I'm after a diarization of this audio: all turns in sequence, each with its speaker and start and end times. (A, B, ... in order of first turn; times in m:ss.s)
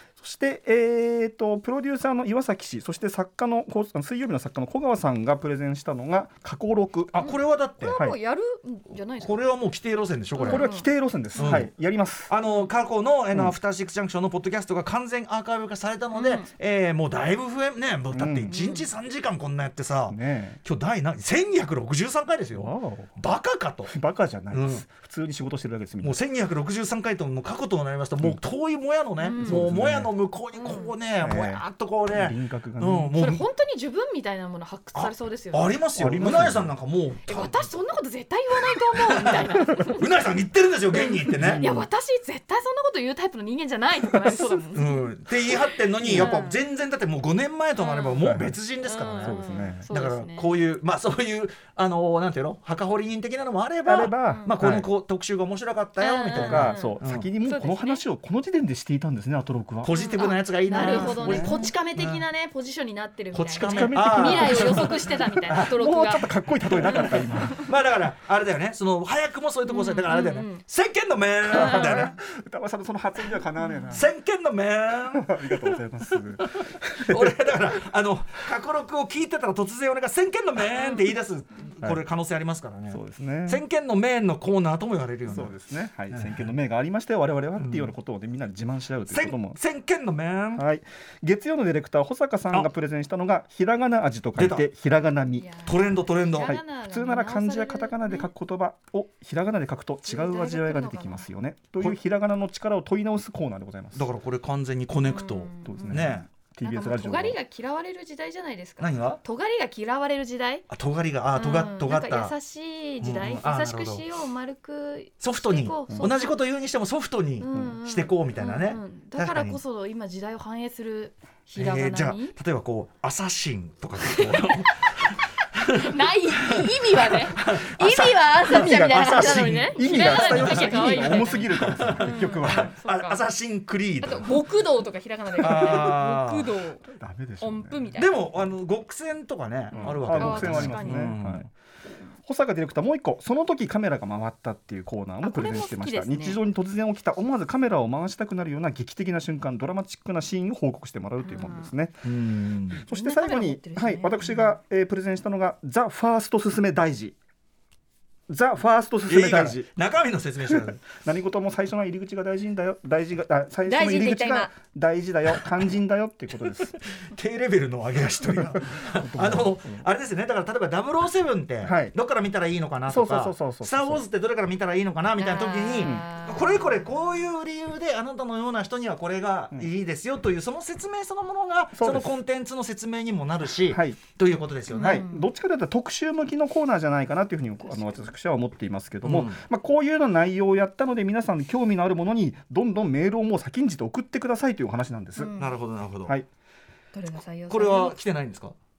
0:00.2-0:07.3 A
0:07.1-0:08.0 B
0:07.2-0:09.5 C
0:07.9-0:08.2 A
0:09.2-0:10.7 B
0:10.4-0:11.6 C
0:10.5-0:12.3 A
0:11.4-0:11.7 B
0:12.3-0:23.9 B
0:16.1-0:16.5 C
0:18.1-0:18.6 A
0:18.5-0:18.9 C
0:20.1-0:20.6 A
0:22.5-0:23.2 A
0:23.9-0:26.2 A
0:24.5-0:24.8 B
0:26.0-0:33.4 B
0:29.2-0:29.6 C
0:29.4-0:30.1 A
0:30.5-0:31.0 C
0:31.2-0:33.2 A
0:33.2-0:36.5 C
0:34.9-0:37.6 B
0:36.0-0:36.7 A
0:37.3-0:40.1 C
0:39.1-0:41.6 B
0:40.9-0:45.1 C
0:41.3-0:41.9 A
0:44.7-0:57.3 B
0:46.0-0:46.5 A
0:46.0-0:46.6 C
0:47.8-0:48.3 C
0:48.2-0:48.6 A
0:48.8-0:50.5 C
0:49.2-0:49.9 A
0:53.8-0:54.9 A
0:54.2-0:54.6 C
0:56.0-0:58.0 C
0:56.3-1:00.0 A
0:59.8-1:02.2 B
0:59.9-1:07.4 C
1:00.7-1:01.7 A
1:03.3-1:05.8 B
1:03.6-1:05.0 A
1:05.5-1:07.7 A
1:06.9-1:12.2 B
1:09.7-1:10.6 C
1:11.5-1:12.1 C
1:11.5-1:14.1 A
1:13.9-1:25.6 B
1:15.1-1:17.6 A
1:22.9-1:23.6 A
1:25.3-1:29.6 A
1:26.1-1:26.5 B
1:27.6-1:27.9 B
1:29.1-1:30.6 B
1:30.6-1:35.6 A
1:34.4-1:34.7 B
1:35.4-1:38.3 C
1:35.6-1:36.6 B
1:36.4-1:44.1 A
1:40.0-1:41.3 C
1:43.9-1:46.3 B
1:45.0-1:46.0 C
1:45.6-1:47.4 A
1:46.6-1:50.7 C
1:48.8-1:49.2 B
1:50.7-1:52.3 B
1:51.3-1:56.4 C
1:53.0-1:54.0 B
1:55.2-1:59.6 B
1:57.4-2:02.4 C
1:57.5-1:57.8 A
2:01.6-2:14.4 B
2:04.0-2:04.8 C
2:05.6-2:13.3 C
2:08.5-2:12.7 A
2:14.0-2:16.9 C
2:15.4-2:16.5 B
2:15.4-2:15.8 A
2:16.9-2:17.9 A
2:17.4-2:18.4 C
2:18.0-2:21.5 B
2:19.7-2:21.2 C
2:19.7-2:21.5 A
2:22.3-2:32.0 A
2:25.2-2:26.4 C
2:31.2-2:31.7 C
2:32.0-2:32.8 B
2:32.8-2:37.2 A
2:32.9-2:34.6 C
2:38.3-2:39.7 A
2:39.1-2:40.8 B
2:40.4-2:46.8 A
2:43.7-2:44.6 C
2:46.5-3:05.0 B
2:48.3-2:49.9 A
2:51.6-2:52.0 A
2:52.9-2:54.0 A
2:55.2-2:56.9 C
2:55.8-2:56.1 A
3:01.8-3:02.2 A
3:03.7-3:04.0 A
3:04.7-3:05.3 C
3:04.7-3:15.3 A
3:09.0-3:09.4 B
3:15.2-3:15.6 C
3:15.4-3:16.2 B
3:16.9-3:18.0 C
3:17.5-3:18.6 B